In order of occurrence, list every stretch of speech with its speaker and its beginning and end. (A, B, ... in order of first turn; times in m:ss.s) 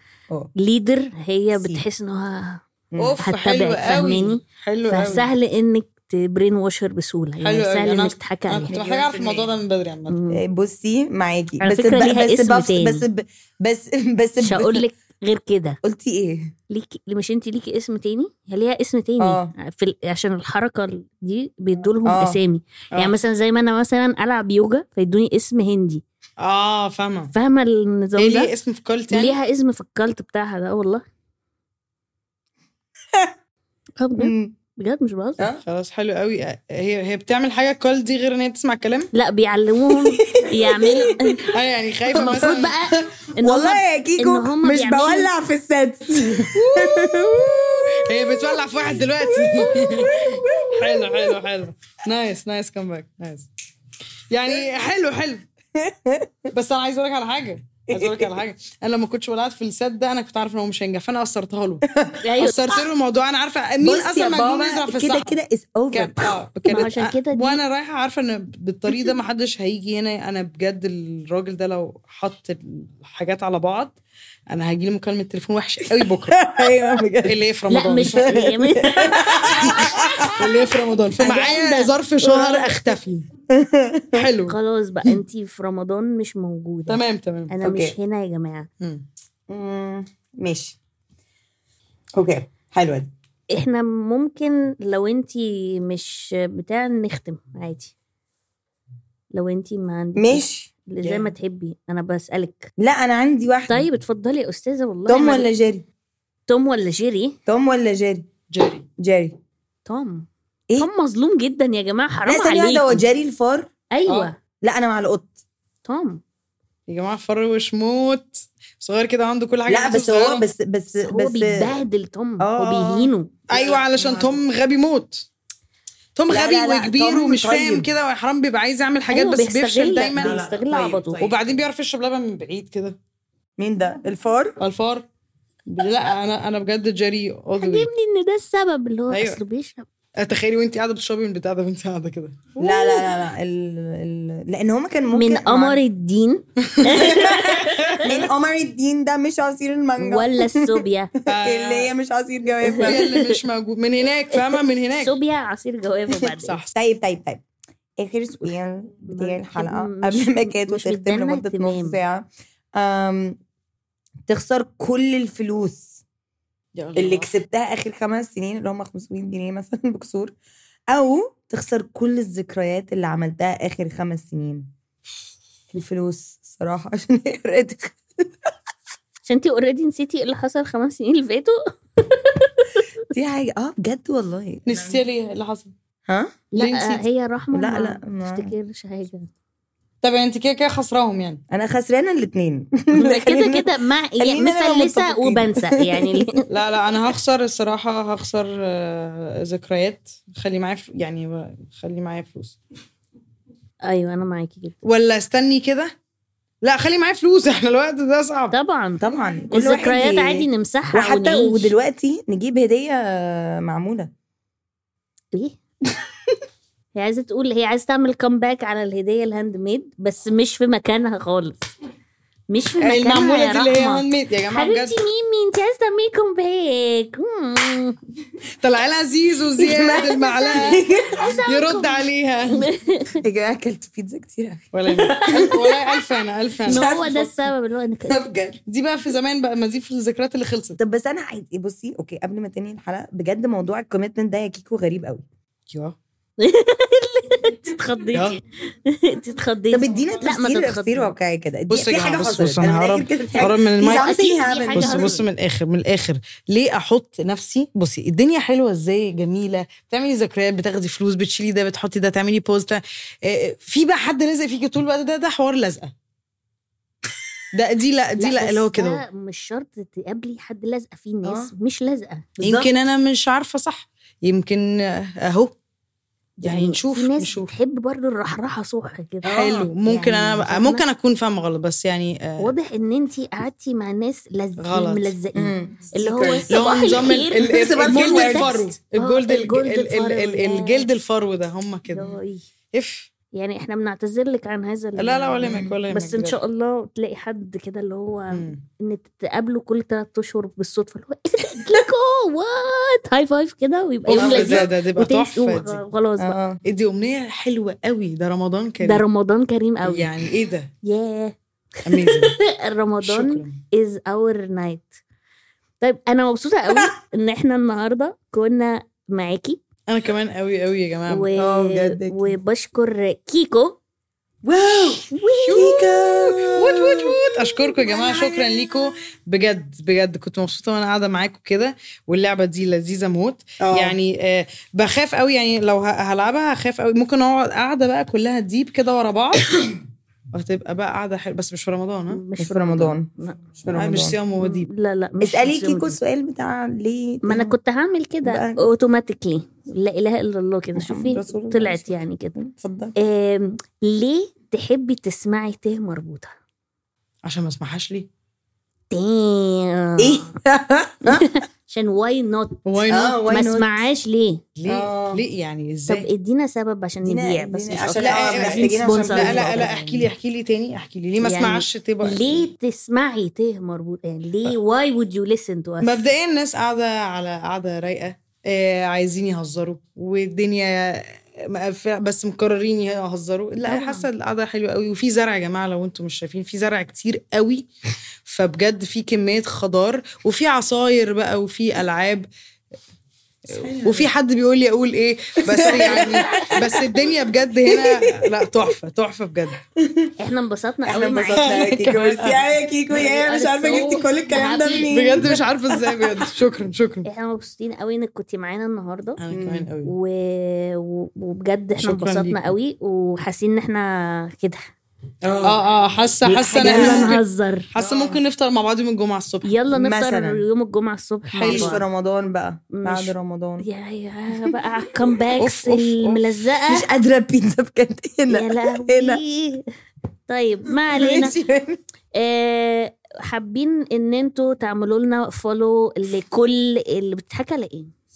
0:00.6-0:02.6 A
0:01.5-0:01.8 B
0:02.9-0:03.2 B
0:03.0-0:05.3 C
0:03.2-0:08.8 A
0:07.4-0:10.2 C
0:08.7-0:09.6 B
0:10.1-0:10.4 A
0:10.3-0:14.8 B
0:11.6-0:13.0 A
0:14.4-0:15.8 A
0:15.8-0:16.5 B
0:16.7-0:26.0 A
0:19.2-0:19.5 B
0:22.0-0:22.4 B
0:26.4-0:27.3 C
0:27.3-0:28.5 A
0:28.2-0:29.4 C
0:29.1-0:31.0 A
0:34.0-0:35.4 A
0:34.2-0:34.5 B
0:35.6-0:39.1 C
0:39.1-0:41.5 A
0:39.9-0:41.4 B
0:41.5-0:42.7 C
0:42.1-0:42.7 B
0:42.1-0:45.3 A
0:43.2-0:51.4 B
0:46.3-0:53.5 C
0:54.3-0:55.4 C
0:55.7-0:56.5 B
0:56.5-1:01.8 C
0:57.9-0:58.4 B
1:01.9-1:02.4 B
1:02.2-1:02.6 A
1:02.4-1:05.4 C
1:03.8-1:06.4 B
1:05.9-1:14.0 C
1:06.7-1:07.6 A
1:14.5-1:16.5 C
1:15.9-1:17.4 B
1:17.2-1:18.5 C
1:17.7-1:19.7 A
1:18.0-1:18.4 B
1:18.9-1:20.5 B
1:19.2-1:23.3 C
1:21.2-1:21.5 B
1:21.2-1:22.9 A
1:23.5-1:24.2 B
1:24.1-1:24.6 C
1:24.5-1:28.7 A
1:26.9-1:27.5 C
1:27.6-1:27.9 B
1:29.5-1:30.8 B
1:32.1-1:33.1 B
1:33.5-1:37.9 A
1:39.3-1:42.7 A
1:40.2-1:40.7 B
1:41.0-1:41.3 C
1:42.8-1:43.8 B
1:43.7-1:45.5 A
1:45.1-1:45.8 B
1:46.5-1:47.4 A
1:47.5-1:48.3 B
1:48.5-1:48.8 C
1:49.0-1:49.4 B
1:49.8-1:53.0 A
1:52.3-1:53.7 B
1:53.9-1:54.4 A
1:54.6-1:55.3 B
1:55.8-1:56.2 A
1:56.9-2:00.4 C
1:59.7-2:01.8 B
2:01.0-2:03.3 A
2:02.4-2:04.4 B
2:03.5-2:05.3 C
2:06.2-2:10.4 C
2:06.3-2:07.9 B
2:09.1-2:11.2 A
2:10.1-2:11.6 B
2:11.2-2:13.0 C
2:13.6-2:14.6 B
2:14.6-2:15.0 C
2:15.7-2:17.9 C
2:17.6-2:19.9 A
2:19.1-2:19.4 C
2:20.2-2:23.0 C
2:22.6-2:25.8 B
2:25.1-2:28.3 A
2:26.6-2:28.1 C
2:26.9-2:33.1 B
2:30.0-2:31.1 A
2:31.3-2:31.9 C
2:32.6-2:33.4 A
2:32.7-2:35.1 C
2:34.9-2:36.6 A
2:36.2-2:36.8 C
2:36.7-2:37.4 B
2:38.0-2:43.4 B
2:39.0-2:42.0 A
2:44.3-2:46.0 B
2:46.7-2:47.3 C
2:47.0-2:50.3 B
2:50.9-2:54.7 B
2:55.7-2:58.3 B
2:59.2-3:02.9 A
3:03.1-3:05.0 B
3:04.6-3:05.7 C
3:06.1-3:06.3 B
3:06.5-3:09.3 A
3:06.6-3:07.0 C
3:07.5-3:08.5 B
3:10.0-3:11.4 C
3:11.5-3:16.4 B
3:12.9-3:16.4 A
3:16.5-3:22.6 C
3:23.8-3:24.8 A
3:24.8-3:25.9 C
3:26.6-3:28.5 C
3:28.5-3:31.7 A
3:29.0-3:34.1 B
3:36.9-3:41.7 A
3:42.5-3:48.0 A
3:42.8-3:45.0 C
3:48.6-3:50.8 C
3:49.6-3:51.3 B
3:49.7-3:53.2 A
3:51.4-3:52.6 C
3:53.2-3:56.0 B
3:54.7-3:57.2 C
3:55.2-3:55.5 A
3:56.7-3:58.2 A
3:56.7-3:57.3 B
3:58.1-3:58.6 B
3:58.7-4:00.8 C
4:00.8-4:05.2 B
4:05.7-4:05.9 C
4:06.4-4:11.1 A
4:08.1-4:08.4 C
4:09.7-4:15.2 B
4:11.7-4:14.1 C
4:13.8-4:15.2 A
4:14.7-4:25.9 C
4:27.5-4:29.0 C
4:28.2-4:32.3 A
4:31.2-4:31.5 B
4:32.4-4:32.7 B
4:32.4-4:35.5 C
4:36.4-4:40.8 A
4:36.4-4:37.5 C
4:39.2-4:39.7 B
4:39.3-4:42.5 C
4:42.4-4:50.9 A
4:44.6-4:45.1 C
4:45.3-4:46.6 B
4:46.5-4:52.2 C
4:47.4-4:48.6 B
4:51.9-4:52.4 A
4:52.7-4:53.1 C
4:53.3-5:06.4 A
4:55.0-4:56.4 C
4:55.4-4:55.8 B
4:58.3-4:58.6 C
5:04.1-5:05.8 C
5:04.1-5:04.7 B
5:06.2-5:06.6 B
5:06.6-5:09.0 C
5:08.8-5:10.1 A
5:09.8-5:10.7 C
5:10.8-5:11.3 A
5:11.8-5:12.3 C
5:11.9-5:14.9 A
5:13.0-5:13.6 C
5:15.8-5:19.6 A
5:19.9-5:21.3 C
5:21.1-5:23.8 A
5:21.4-5:22.4 B
5:24.4-5:28.9 B
5:25.1-5:25.8 A
5:25.4-5:25.8 C
5:26.6-5:39.6 C
5:33.6-5:34.0 B
5:40.3-5:42.2 C
5:42.1-5:43.4 A
5:42.4-5:43.1 B
5:43.6-5:44.2 B
5:43.7-5:44.7 C
5:44.4-5:46.0 A
5:45.2-5:47.5 B
5:47.2-5:52.4 A
5:48.2-5:48.7 B
5:50.7-5:52.9 B
5:53.0-5:56.3 A
5:57.2-5:58.1 C
5:58.9-6:00.3 A
6:00.0-6:01.2 B
6:01.0-6:04.4 A
6:02.6-6:03.2 C
6:02.9-6:03.8 B
6:04.6-6:06.1 C
6:04.7-6:05.2 B
6:05.9-6:10.1 A
6:07.0-6:09.7 B
6:08.0-6:12.4 C
6:11.2-6:16.1 A
6:15.8-6:27.6 C
6:23.6-6:24.1 A
6:28.2-6:32.3 C
6:33.5-6:34.1 B
6:33.5-6:39.6 C
6:35.4-6:37.1 B
6:37.6-6:38.7 B
6:39.8-6:40.1 B
6:40.2-6:41.8 A
6:40.8-6:46.2 B
6:41.4-6:42.5 C
6:42.9-6:44.9 A
6:44.9-6:47.0 C
6:47.0-6:49.2 A
6:49.2-6:49.9 C
6:49.3-6:49.7 B
6:49.8-6:54.7 A
6:51.8-6:52.5 C
6:55.2-6:55.6 B
6:55.4-6:57.2 C
6:56.2-6:57.1 B
6:56.3-6:57.7 A
6:57.7-6:59.5 C
6:57.8-6:58.2 B
6:59.4-7:01.8 A
6:59.7-7:00.4 B
7:01.3-7:01.8 C
7:01.4-7:03.6 B
7:02.7-7:06.8 A
7:05.4-7:06.2 C
7:06.7-7:09.2 B
7:08.3-7:09.6 A
7:10.3-7:11.4 A
7:10.9-7:11.8 B
7:12.2-7:17.9 A